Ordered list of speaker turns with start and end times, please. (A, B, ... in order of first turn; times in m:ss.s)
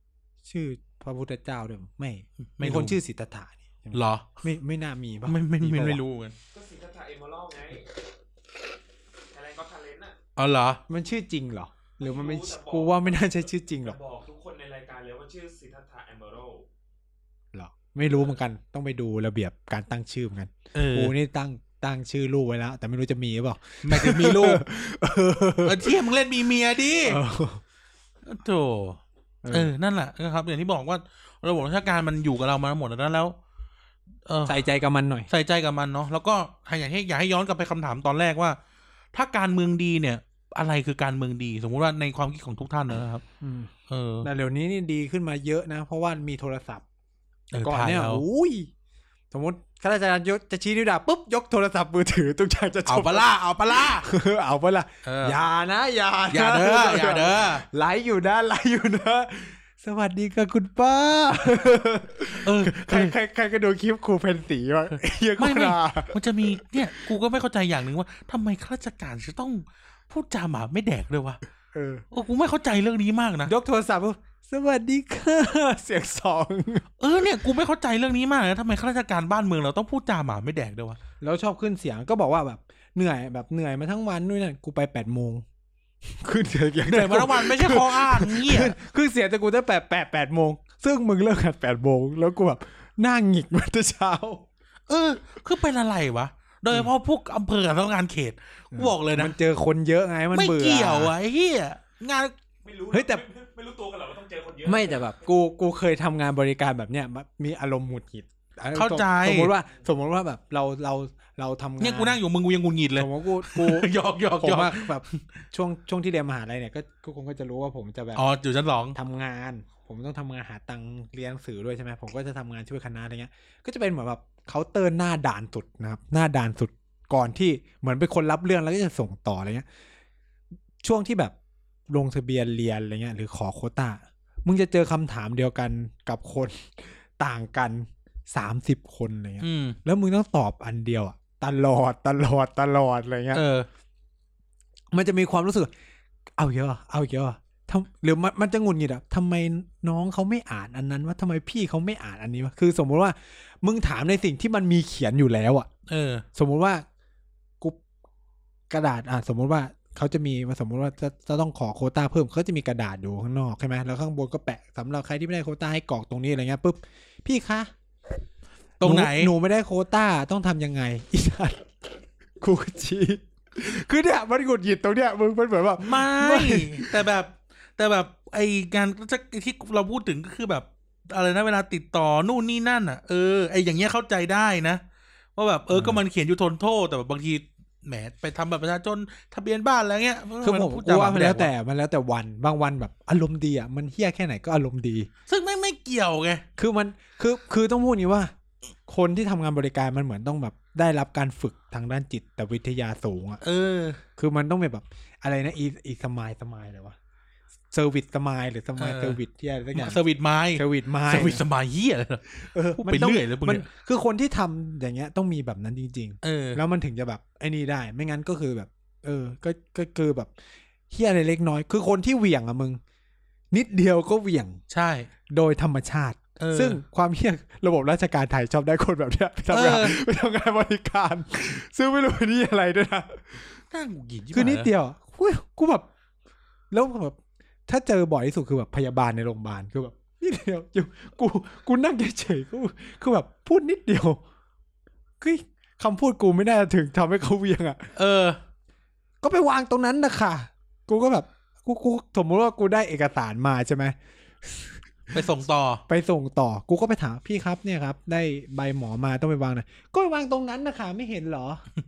0:00.4-0:06.0 A
0:02.6-0:03.0 B
0:03.9-0:04.3 B
0:05.3-0:06.4 B
0:06.5-0:07.8 C
0:09.3-0:10.2 C
0:10.4-0:10.8 B
0:10.9-0:14.0 A
0:12.0-0:16.7 C
0:17.5-0:26.0 A
0:20.7-0:21.1 B
0:23.8-0:24.6 B
0:25.6-0:27.2 B
0:27.0-0:27.6 A
0:28.2-0:33.4 B
0:29.4-0:29.7 A
0:34.3-0:34.6 B
0:34.5-0:35.3 A
0:35.3-0:38.6 B
0:39.1-0:43.2 B
0:43.4-0:43.7 A
0:43.9-0:44.3 B
0:44.2-0:46.8 A
0:47.5-0:48.2 B
0:47.6-0:48.7 A
0:49.3-1:06.2 A
0:52.8-0:54.1 B
0:55.0-0:55.4 B
0:56.3-0:57.6 B
1:02.4-1:03.1 B
1:05.4-1:11.4 B
1:11.7-1:12.0 A
1:12.1-1:13.5 B
1:13.4-1:16.8 A
1:17.0-1:21.0 B
1:21.2-1:25.4 A
1:26.0-1:34.4 A
1:26.8-1:28.7 B
1:34.9-1:39.3 B
1:38.7-1:41.1 A
1:40.3-1:42.3 B
1:42.6-1:45.2 C
1:42.9-1:43.2 A
1:44.6-1:52.2 A
1:48.7-1:49.5 B
1:51.8-1:55.2 B
1:53.0-1:58.2 A
1:58.1-1:59.0 B
1:58.9-2:09.7 A
2:10.8-2:11.3 A
2:11.9-2:23.4 A
2:19.4-2:19.8 B
2:23.3-2:23.7 B
2:24.9-2:25.7 A
2:26.4-2:35.7 A
2:35.9-2:36.2 B
2:36.3-2:36.8 A
2:38.7-2:47.7 A
2:48.8-2:49.3 B
2:48.8-2:57.0 A
2:55.8-3:04.8 B
3:05.4-3:11.5 B
3:05.7-3:06.0 A
3:10.4-3:15.1 A
3:15.3-3:16.4 B
3:16.6-3:18.3 A
3:18.9-3:23.4 A
3:23.4-3:24.0 B
3:24.2-3:27.0 A
3:27.7-3:30.0 A
3:28.8-3:29.2 B
3:29.7-3:33.7 B
3:30.5-3:31.4 A
3:32.5-3:40.3 A
3:36.2-3:36.6 B
3:40.9-3:42.8 A
3:43.5-3:44.6 A
3:44.7-3:45.1 B
3:45.3-3:53.4 A
3:46.4-3:46.8 B
3:49.5-3:50.0 B
3:53.7-3:54.7 B
3:54.3-3:55.9 A
3:56.7-4:04.2 A
4:05.2-4:07.9 A
4:07.9-4:08.4 B
4:09.2-4:15.2 A
4:15.1-4:15.8 B
4:15.9-4:21.6 A